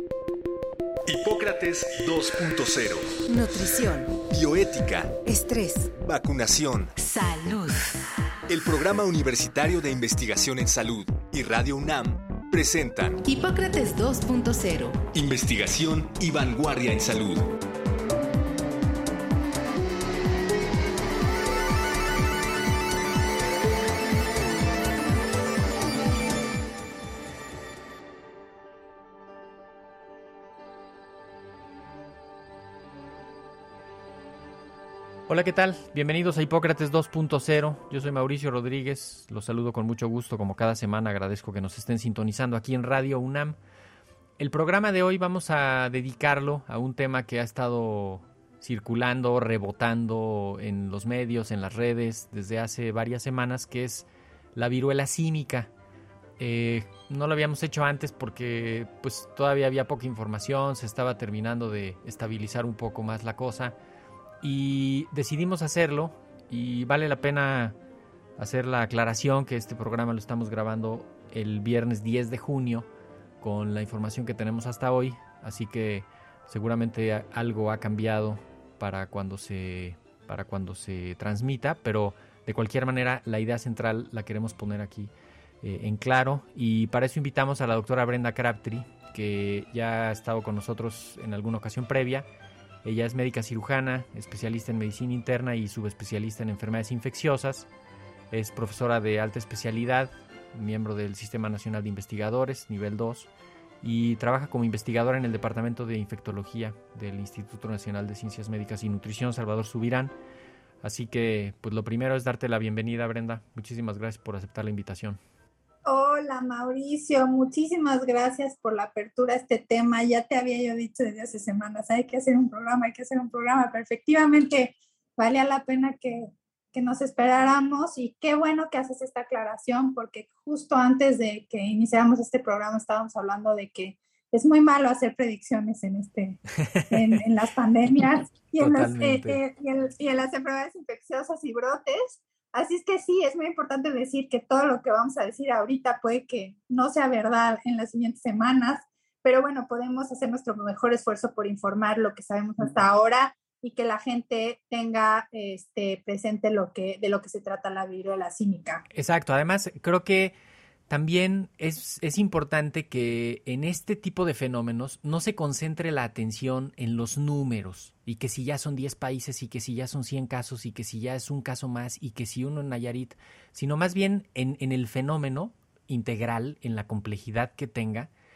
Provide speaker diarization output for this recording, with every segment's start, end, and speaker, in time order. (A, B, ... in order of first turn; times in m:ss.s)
0:01.1-0:03.2 A
0:03.3-0:04.2 B
0:04.3-0:05.2 A
0:05.2-0:05.9 B
0:05.9-0:07.0 A
0:07.0-0:08.1 B
0:08.5-0:13.2 A
0:13.2-0:15.1 B
0:15.1-0:17.5 A
0:35.3-0:43.6 C
0:44.4-0:55.7 C
0:56.4-1:03.8 C
1:04.4-1:07.8 C
1:08.4-1:12.9 C
1:13.4-1:32.2 C
1:32.8-1:37.7 C
1:38.3-1:43.3 C
1:43.8-1:50.1 C
1:50.8-1:55.2 C
1:55.9-2:38.8 D
2:18.6-2:19.4 C
2:38.9-2:40.3 C
2:40.9-2:58.1 C